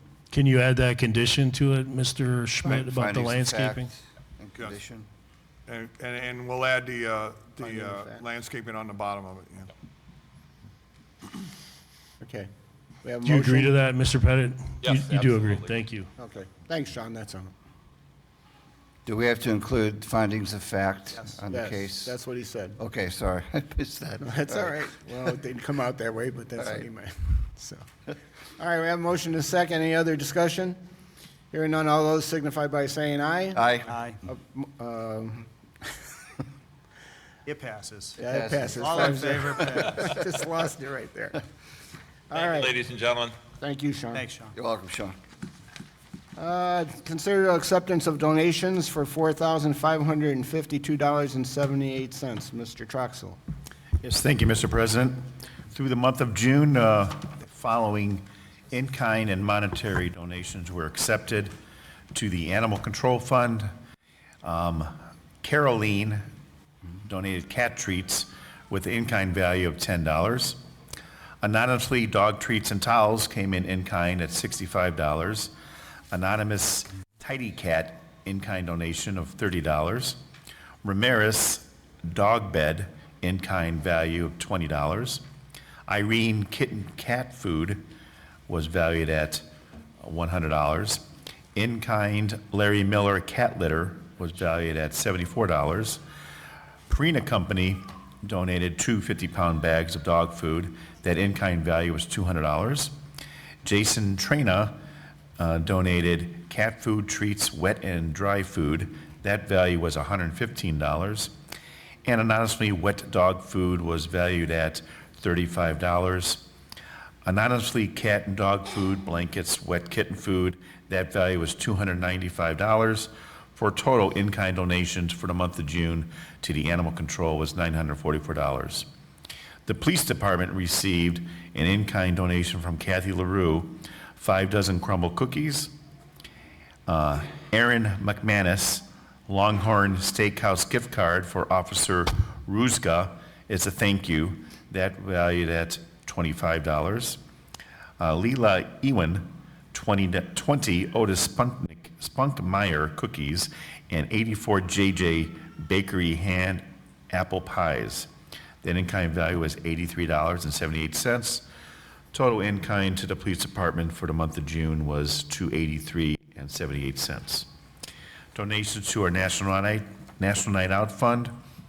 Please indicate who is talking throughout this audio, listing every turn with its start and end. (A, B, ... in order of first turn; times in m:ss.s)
0:00.3-0:03.9 A
0:02.6-0:05.1 B
0:04.6-0:04.8 C
0:05.7-0:09.7 C
0:07.6-0:08.3 D
0:12.2-0:12.5 D
0:13.0-0:13.7 D
0:13.2-0:16.1 A
0:14.8-0:15.8 E
0:16.2-0:17.5 D
0:19.0-0:22.1 B
0:21.5-0:22.8 D
0:22.8-0:24.9 B
0:24.2-0:27.8 D
0:26.6-0:26.9 B
0:28.6-0:30.8 D
0:31.5-0:33.6 D
0:33.6-0:33.9 B
0:33.9-0:34.2 F
0:34.3-0:35.9 D
0:37.4-0:38.2 F
0:38.2-0:39.3 B
0:38.2-0:41.4 D
0:38.7-0:40.1 F
0:42.3-0:42.7 D
0:42.3-0:43.4 E
0:43.6-0:44.3 D
0:44.1-0:44.6 F
0:44.5-0:45.2 B
0:46.4-0:53.4 D
0:54.0-0:55.2 G
0:55.7-1:01.5 G
1:02.1-1:03.7 G
1:04.4-1:06.3 G
1:07.0-1:10.6 G
1:11.4-1:15.5 G
1:16.1-1:20.2 G
1:20.8-1:25.2 G
1:25.9-1:27.9 G
1:28.5-1:29.4 G
1:30.0-1:36.0 G
1:36.9-1:43.0 G
1:43.6-1:44.8 G
1:45.4-1:51.3 G
1:52.0-1:56.5 G
1:57.2-2:08.9 G
2:09.7-2:15.7 G
2:16.9-2:27.2 G
2:28.0-2:38.1 G
2:38.6-2:41.4 G
2:42.1-2:47.5 G
2:48.3-2:51.3 G